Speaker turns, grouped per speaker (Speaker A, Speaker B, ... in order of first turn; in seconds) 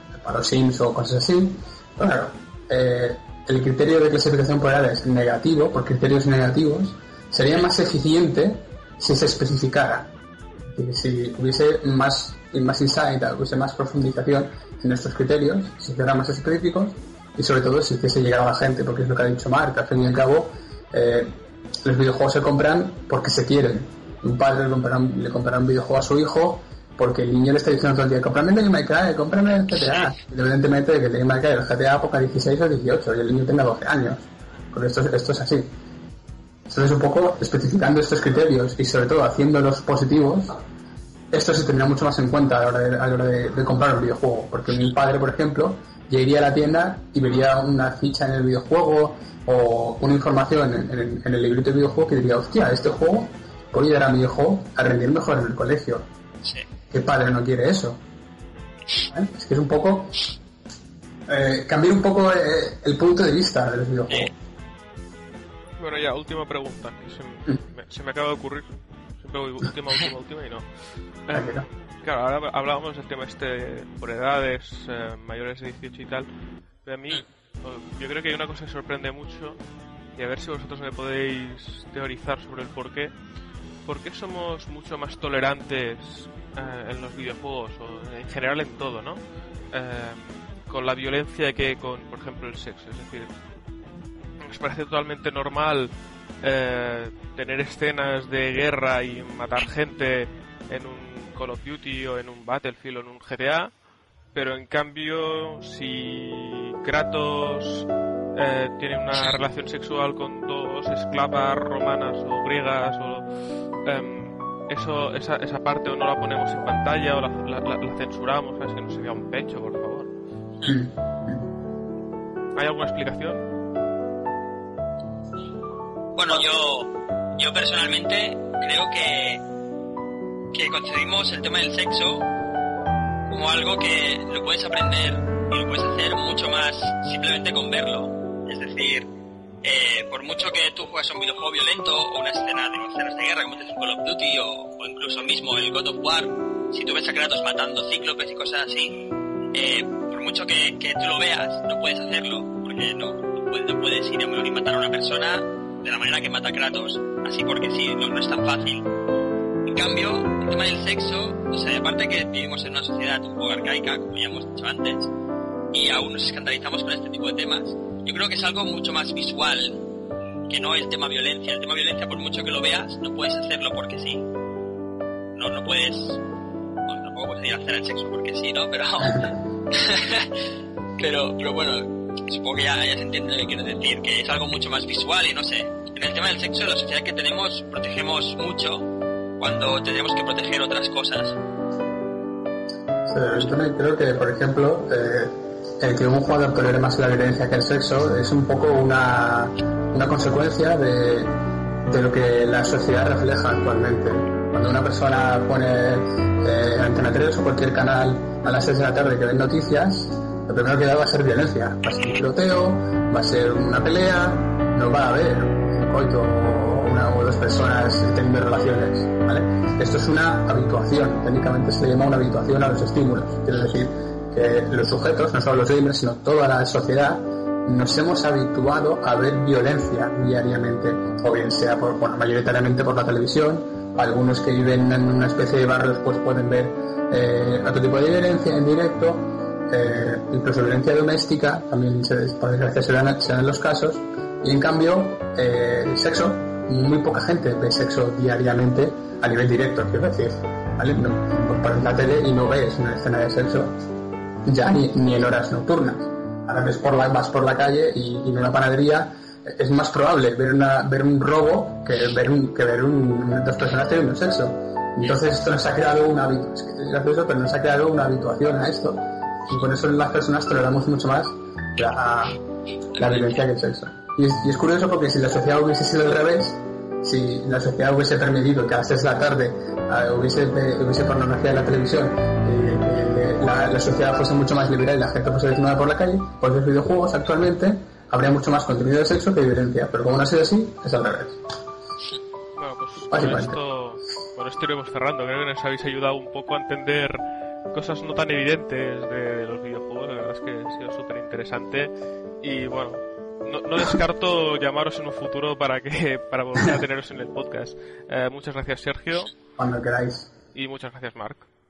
Speaker A: 0.2-10.1, 10.7-35.7, 36.7-40.6, 41.3-56.0, 56.9-58.0, 59.1-60.2, 61.3-64.3, 71.3-71.7, 120.7-121.4, 193.1-253.8, 254.5-272.4, 273.0-291.4, 293.1-293.6, 309.6-310.3
Speaker B: 65.8-70.7, 71.3-76.3, 76.8-79.6, 80.1-83.1, 83.9-93.3, 94.4-103.7, 104.3-113.3, 113.8-120.1, 122.5-123.5, 292.6-309.4, 310.5-311.5
Speaker C: 126.2-129.4, 130.5-132.3, 133.3-139.1, 139.6-158.9, 159.7-165.1, 165.7-169.8, 170.5-174.3, 175.3-176.2, 176.9-180.4, 181.0-188.9, 189.4-191.4, 273.0-273.4